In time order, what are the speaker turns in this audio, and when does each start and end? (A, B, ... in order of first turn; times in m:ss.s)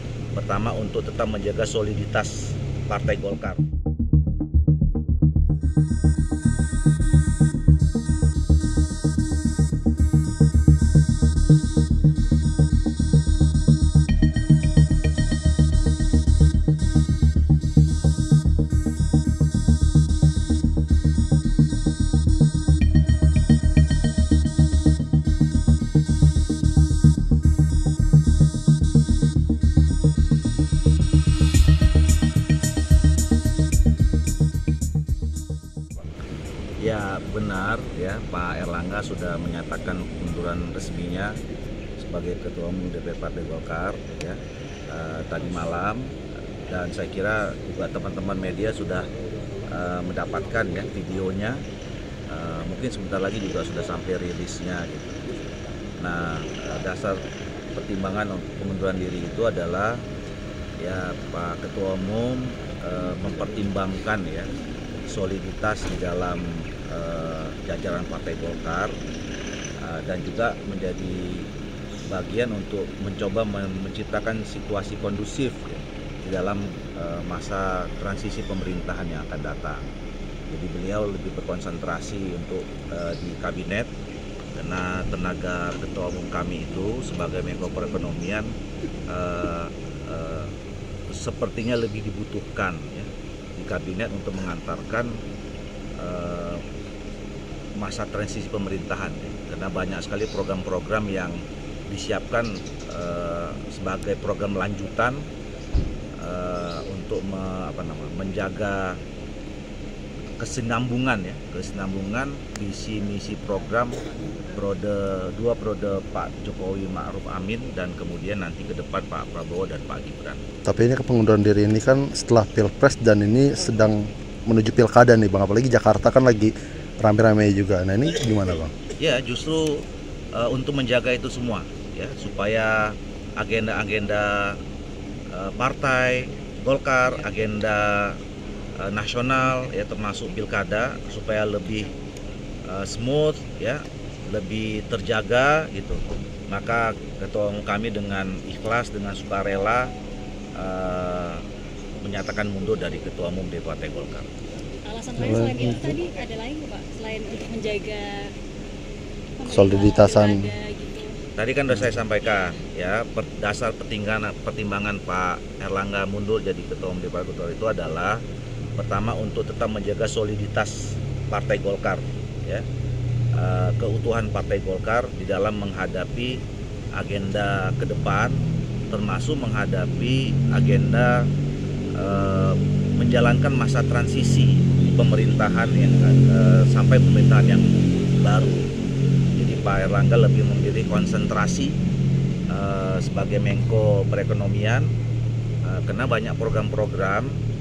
0:00.3-0:03.6 A
0:36.8-0:41.4 A
0:42.0-0:49.1 A
0:49.7-0:51.6 A
0:52.3-0:55.2 A
0:56.0-1:00.0 A
1:00.8-1:04.5 A
1:05.0-1:09.0 A
1:09.8-1:11.5 A
1:12.1-1:19.9 A
1:20.5-1:23.9 A
1:24.5-1:28.5 A
1:29.1-1:30.5 A
1:31.1-1:35.2 A
1:36.0-1:36.6 A
1:37.8-1:45.3 A
1:46.2-1:49.0 A
1:50.4-2:00.4 A
2:00.6-2:08.7 B
2:09.0-2:09.8 A
2:10.3-2:14.6 A
2:15.3-2:18.2 A
2:18.8-2:21.9 A
2:22.7-2:29.9 A
2:30.5-2:31.4 A
2:32.0-2:34.3 A
2:34.8-2:38.3 C
2:35.2-2:36.0 B
2:39.4-2:41.2 C
2:39.4-2:40.5 B
2:41.4-2:48.2 A
2:48.8-2:52.6 A
2:53.3-2:56.4 A
2:56.9-3:01.3 A
3:01.9-3:08.7 A
3:09.3-3:11.8 A
3:12.5-3:14.9 A
3:15.6-3:17.4 A